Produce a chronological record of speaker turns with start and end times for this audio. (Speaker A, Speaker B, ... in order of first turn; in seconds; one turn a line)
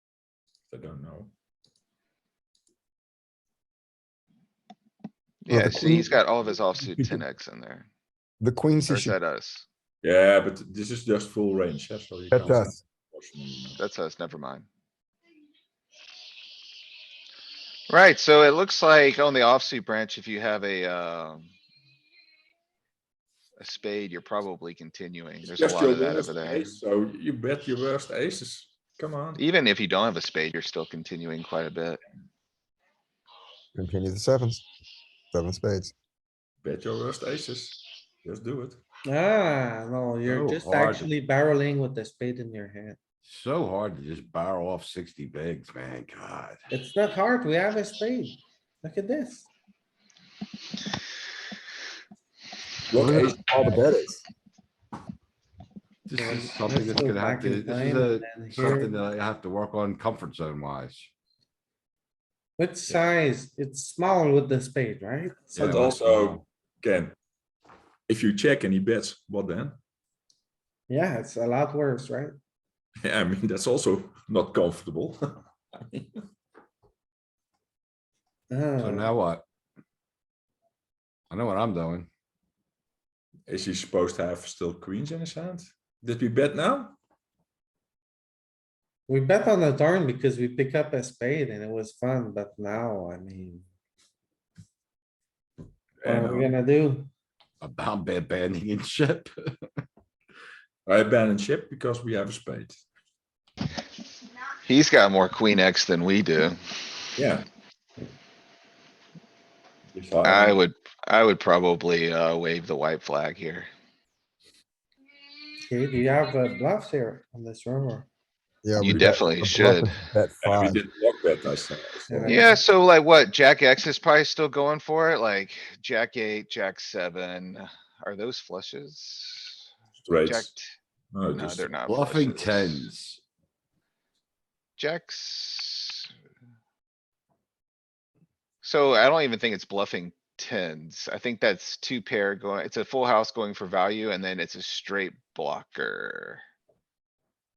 Speaker A: 0.7-1.3
Speaker B: 5.4-7.9
Speaker C: 5.5-6.2
Speaker C: 8.4-9.2
Speaker B: 8.9-9.7
Speaker A: 10.0-13.8
Speaker C: 12.3-12.8
Speaker B: 13.8-14.7
Speaker B: 17.9-21.5
Speaker B: 23.6-26.7
Speaker A: 25.5-29.4
Speaker B: 29.4-32.0
Speaker C: 33.8-34.6
Speaker C: 35.3-35.9
Speaker A: 36.6-38.8
Speaker D: 39.1-43.0
Speaker E: 40.3-41.1
Speaker E: 43.2-46.6
Speaker D: 46.7-49.5
Speaker A: 52.9-53.9
Speaker C: 53.0-54.2
Speaker E: 56.1-61.1
Speaker D: 56.1-59.0
Speaker D: 62.6-65.6
Speaker A: 65.5-67.2
Speaker E: 65.6-66.4
Speaker A: 68.1-69.8
Speaker D: 70.9-72.3
Speaker A: 73.0-76.2
Speaker D: 78.5-79.1
Speaker E: 78.8-79.4
Speaker E: 81.3-82.1
Speaker A: 83.5-87.0
Speaker D: 89.1-93.7
Speaker A: 96.0-96.5
Speaker D: 96.0-97.1
Speaker E: 97.6-99.5
Speaker A: 100.9-102.8
Speaker B: 104.7-106.6
Speaker A: 107.2-107.5
Speaker A: 109.9-110.6
Speaker B: 110.2-113.7
Speaker D: 115.6-118.1
Speaker C: 118.6-120.8
Speaker B: 118.8-120.0
Speaker A: 120.4-122.5
Speaker D: 122.1-122.6
Speaker B: 122.2-129.6
Speaker A: 130.0-130.5
Speaker B: 130.2-130.7
Speaker A: 131.1-131.7
Speaker B: 131.3-132.9
Speaker E: 131.9-133.2
Speaker B: 134.8-136.1
Speaker B: 138.6-146.4